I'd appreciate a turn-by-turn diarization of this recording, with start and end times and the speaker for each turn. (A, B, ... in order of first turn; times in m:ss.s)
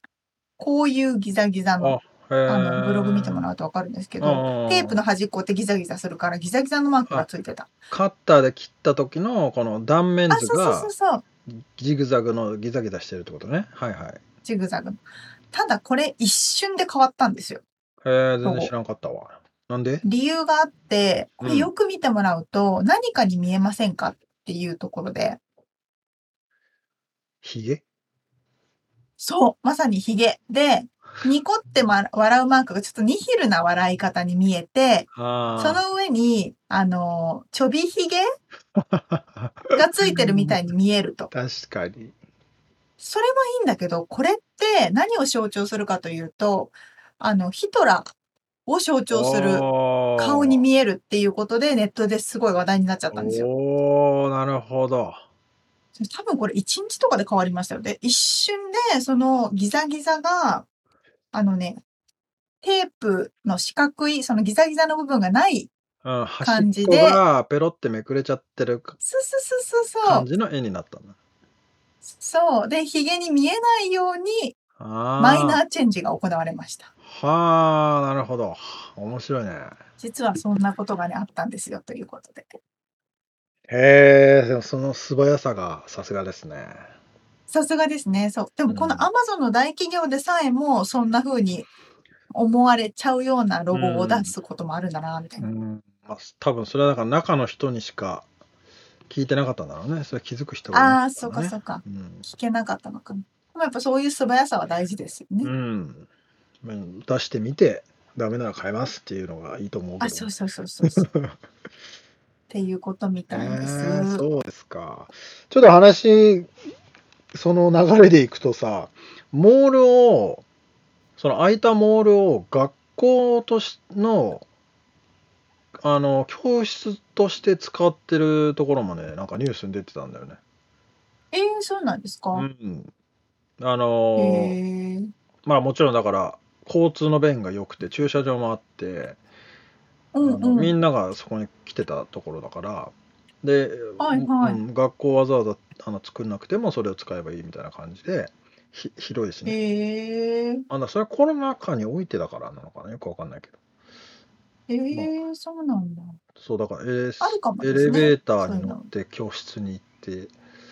0:00.6-0:07.7 A
0:01.8-0:03.5 B
0:04.2-0:05.0 B
0:07.9-0:10.9 B
0:10.3-0:11.2 A
0:11.5-0:14.2 B
0:14.4-0:15.0 A
0:15.5-0:17.6 A
0:18.0-0:20.0 B
0:18.4-0:18.7 A
0:20.0-0:25.4 A
0:21.4-0:21.7 B
0:27.4-0:27.8 B
0:29.2-0:38.2 A
0:35.1-0:35.8 B
0:38.7-0:40.6 B
0:39.7-0:41.3 A
0:41.3-0:42.1 B
0:43.0-0:48.1 A
0:48.6-0:49.6 A
0:49.1-0:50.6 B
0:50.2-0:53.5 A
0:53.1-0:55.2 B
0:56.0-1:00.6 A
1:01.3-1:01.8 A
1:02.6-1:05.7 A
1:06.0-1:09.0 B
1:06.4-1:07.2 A
1:09.0-1:10.2 A
1:10.0-1:11.2 B
1:12.0-1:14.6 A
1:14.8-1:15.6 B
1:15.2-1:16.9 A
1:17.0-1:19.8 B
1:20.0-1:22.4 A
1:23.7-1:26.9 B
1:27.5-1:31.7 A
1:28.7-1:29.1 B
1:32.3-1:35.5 A
1:33.7-1:34.3 B
1:35.4-1:38.2 B
1:39.1-1:42.2 B
1:40.7-1:45.5 A
1:45.4-1:46.1 B
1:46.6-1:50.3 B
1:50.0-1:51.1 A
1:50.8-1:51.3 B
1:52.5-1:54.2 A
1:53.3-1:56.5 B
1:57.3-2:00.4 B
2:01.2-2:04.4 B
2:05.8-2:10.4 B
2:11.3-2:12.4 A
2:12.3-2:12.9 B
2:13.6-2:14.6 B
2:14.2-2:15.1 A
2:15.4-2:19.2 B
2:20.1-2:20.7 A
2:20.2-2:29.6 B
2:24.0-2:24.6 A
2:29.4-2:30.6 A
2:30.7-2:33.5 B
2:34.7-2:36.2 A
2:36.4-2:40.3 B
2:37.2-2:38.9 A